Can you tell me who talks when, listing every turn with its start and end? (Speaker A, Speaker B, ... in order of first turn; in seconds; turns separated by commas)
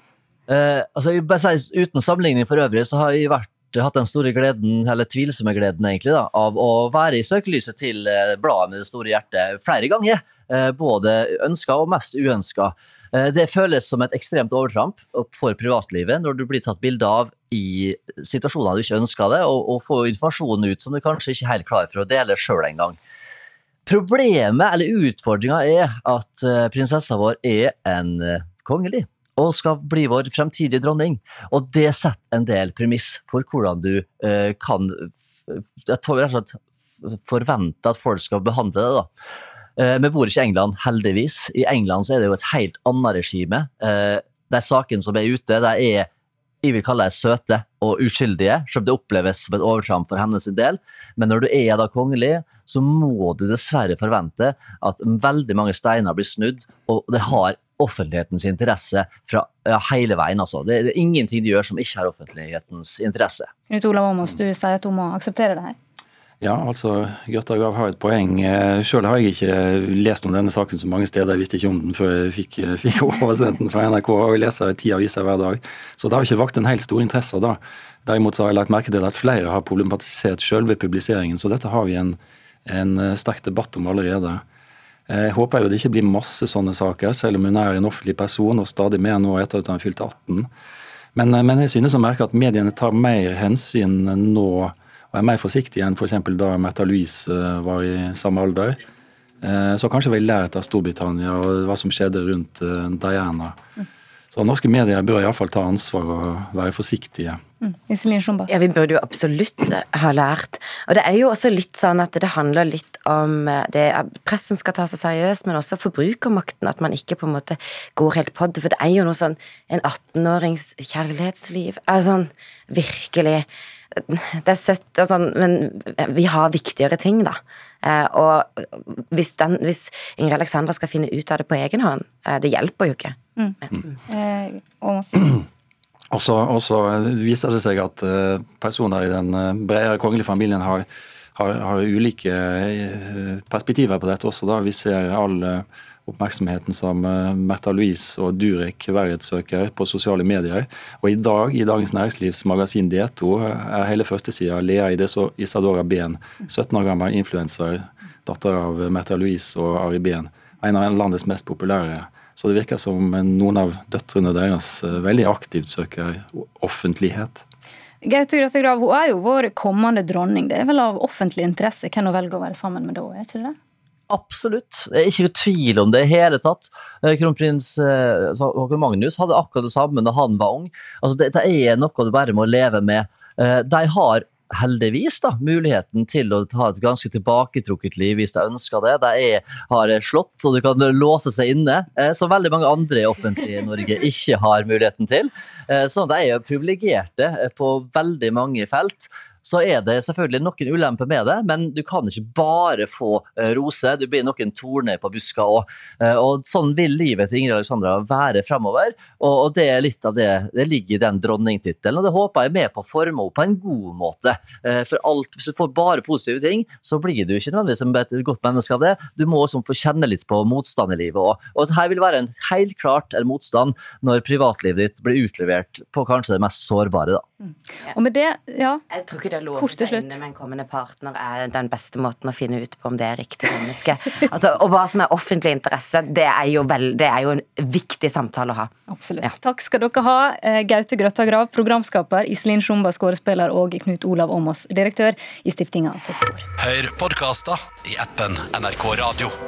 Speaker A: 0.5-23.0, Speaker A: 23.9-39.1, Speaker A: 39.8-46.1, Speaker A: 46.6-63.5, Speaker B: 63.7-65.8, Speaker C: 66.4-84.4, Speaker C: 85.1-90.5, Speaker C: 91.2-98.8, Speaker C: 99.4-103.6, Speaker C: 104.3-107.4, Speaker B: 107.6-108.5, Speaker D: 108.5-133.2, Speaker B: 133.4-135.4, Speaker C: 136.1-167.4, Speaker B: 168.0-173.6, Speaker A: 174.1-227.2, Speaker B: 227.9-228.8, Speaker D: 228.9-239.3, Speaker B: 229.6-230.2, Speaker B: 238.9-246.5, Speaker E: 246.6-249.3